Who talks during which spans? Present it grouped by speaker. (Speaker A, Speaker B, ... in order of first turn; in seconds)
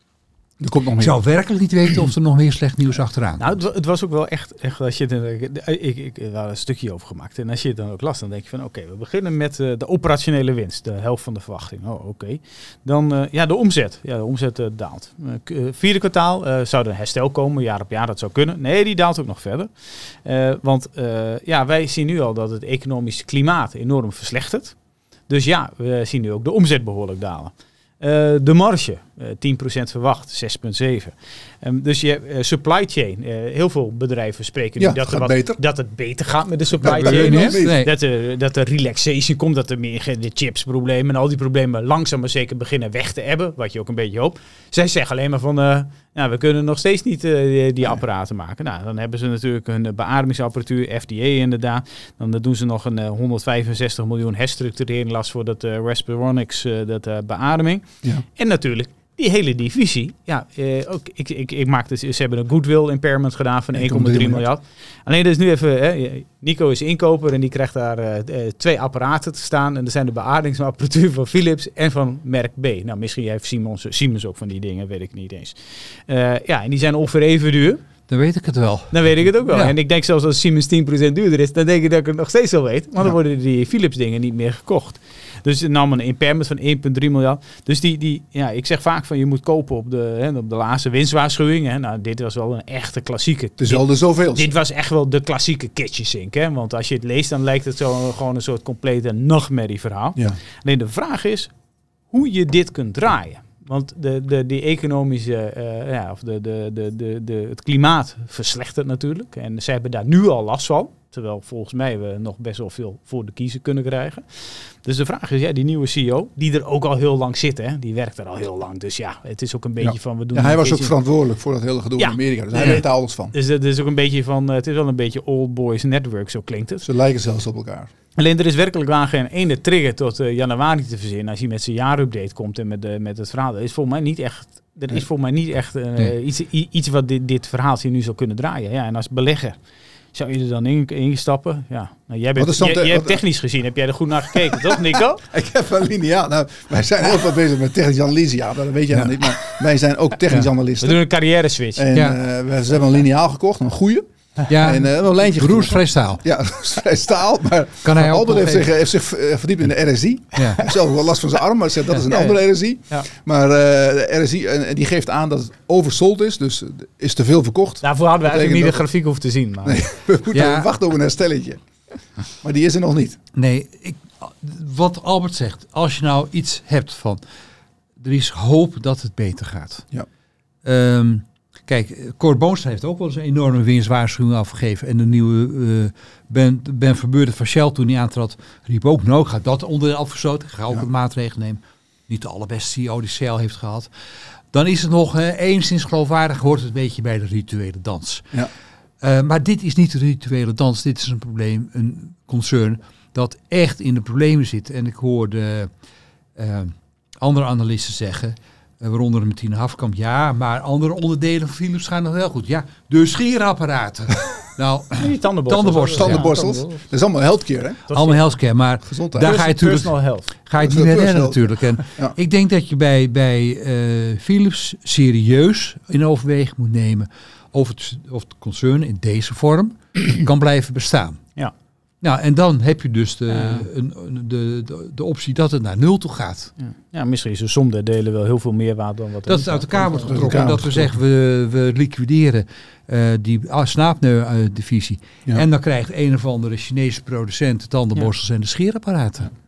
Speaker A: 0.6-1.2, 34.8-35.6, 36.8-37.8, 63.7-64.4, 93.6-94.5, 119.8-123.3, 126.8-127.9, 142.4-143.2, 144.7-151.0, 151.7-168.8, 169.6-171.6, 172.4-173.2, 215.9-217.8, 218.8-219.4, 220.6-222.2, 240.0-240.9
Speaker B: 1.0-3.5, 36.8-37.9, 78.1-79.7, 148.9-149.2, 151.9-152.2, 154.5-156.2, 157.8-158.7, 170.3-170.7, 173.3-177.2, 178.0-179.8, 180.6-193.9, 194.5-198.3, 199.0-205.7, 206.3-216.2, 217.9-231.2, 232.0-236.5, 239.2-249.3
Speaker C: 3.4-24.8, 25.3-77.8, 78.9-101.5, 102.1-114.2, 114.8-120.9, 122.0-126.8, 128.2-139.6, 140.1-145.2, 150.8-151.8, 161.9-162.4, 167.8-169.8, 215.0-216.8, 217.9-218.2, 219.2-220.3, 233.3-233.7, 236.6-240.3